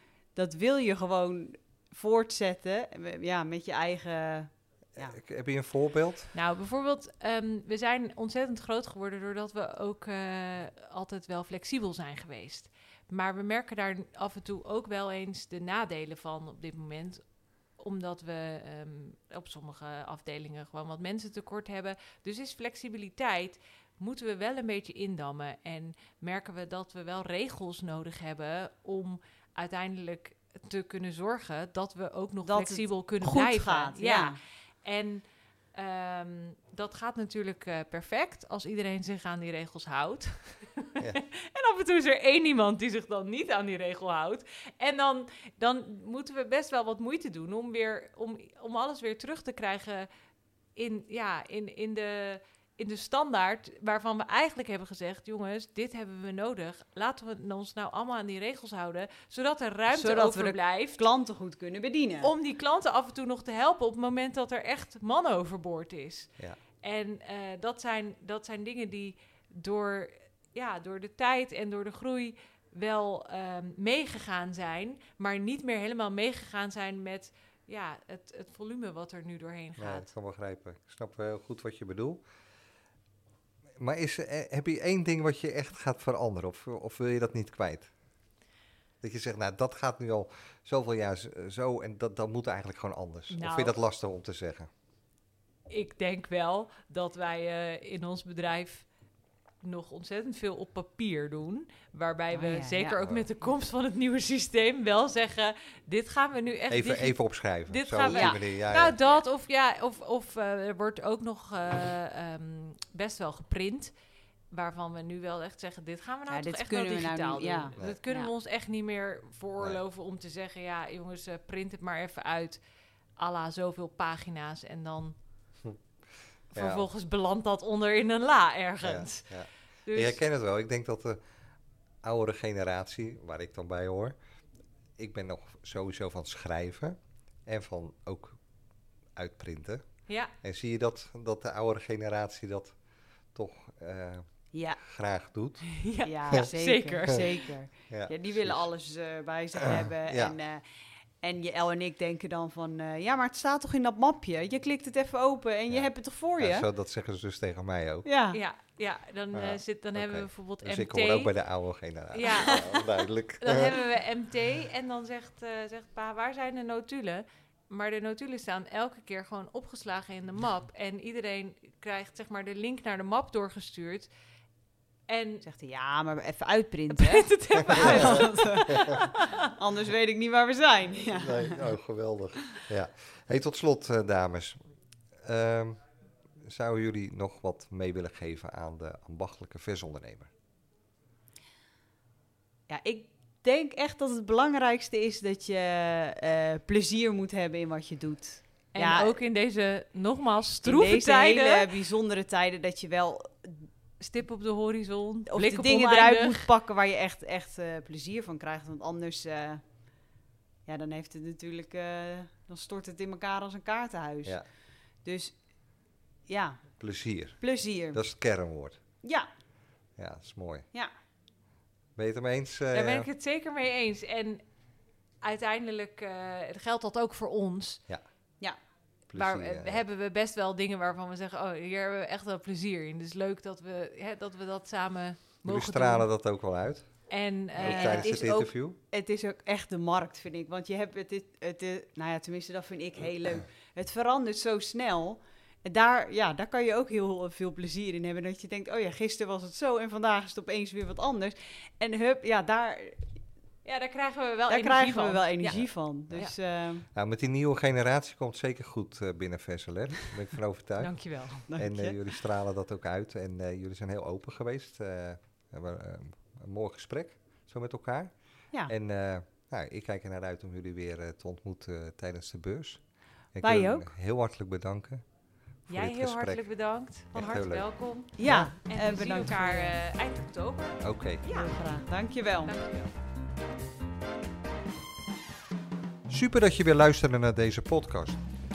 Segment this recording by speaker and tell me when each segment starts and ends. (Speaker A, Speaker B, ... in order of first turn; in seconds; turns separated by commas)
Speaker A: 0.4-5.2, Speaker B: 5.0-6.3, Speaker C: 6.3-50.1, Speaker A: 32.4-34.4, Speaker C: 50.8-61.0, Speaker A: 59.9-62.3, Speaker C: 62.2-66.3, Speaker C: 66.8-80.1, Speaker B: 79.8-82.2, Speaker B: 83.8-87.9, Speaker B: 89.0-94.7, Speaker C: 93.3-93.8, Speaker C: 95.7-98.9, Speaker C: 99.6-113.9, Speaker A: 102.3-103.0, Speaker B: 103.0-103.2, Speaker B: 106.7-109.0, Speaker A: 108.1-108.4, Speaker C: 114.5-122.6, Speaker A: 116.3-118.3, Speaker C: 123.2-125.1, Speaker B: 126.5-126.9, Speaker C: 126.5-129.3, Speaker B: 128.8-131.2, Speaker C: 129.9-130.2, Speaker B: 132.0-134.2, Speaker B: 135.0-138.4, Speaker B: 139.2-142.8, Speaker C: 140.1-140.3, Speaker B: 143.3-145.7, Speaker A: 144.5-144.8, Speaker C: 145.8-147.4, Speaker A: 146.1-150.6, Speaker B: 147.9-148.7, Speaker B: 149.6-150.4, Speaker A: 151.2-156.7, Speaker B: 155.7-158.1, Speaker A: 158.1-158.4, Speaker C: 158.3-161.3, Speaker B: 159.3-163.7, Speaker C: 162.1-162.8, Speaker C: 163.4-174.1, Speaker C: 175.1-175.4, Speaker A: 175.4-181.7, Speaker C: 176.9-179.5, Speaker B: 177.8-179.0, Speaker B: 181.2-184.6, Speaker B: 185.2-190.3, Speaker A: 192.7-199.2, Speaker C: 198.7-201.7, Speaker A: 200.6-203.7, Speaker C: 204.0-206.5, Speaker A: 205.3-209.6, Speaker A: 210.7-214.4, Speaker A: 215.0-215.4, Speaker A: 216.3-216.7, Speaker B: 216.8-218.8, Speaker A: 217.4-218.0, Speaker B: 220.0-220.7, Speaker B: 221.9-223.1, Speaker C: 222.7-224.4, Speaker C: 225.2-227.8, Speaker B: 229.1-229.8, Speaker C: 229.1-236.1, Speaker B: 235.4-237.1, Speaker C: 237.1-238.1, Speaker B: 237.6-238.8, Speaker A: 237.6-253.1, Speaker C: 253.6-256.3, Speaker A: 254.5-256.9, Speaker B: 255.6-256.3, Speaker B: 256.9-261.0, Speaker C: 260.8-261.5, Speaker A: 261.5-262.0, Speaker B: 261.6-272.8, Speaker B: 273.3-275.1, Speaker A: 273.4-273.9, Speaker B: 275.6-276.5, Speaker C: 275.7-281.6, Speaker B: 277.1-277.6, Speaker A: 278.1-279.8, Speaker B: 278.2-278.5, Speaker B: 280.8-281.2, Speaker A: 281.3-282.5, Speaker C: 282.4-282.9, Speaker B: 286.1-288.2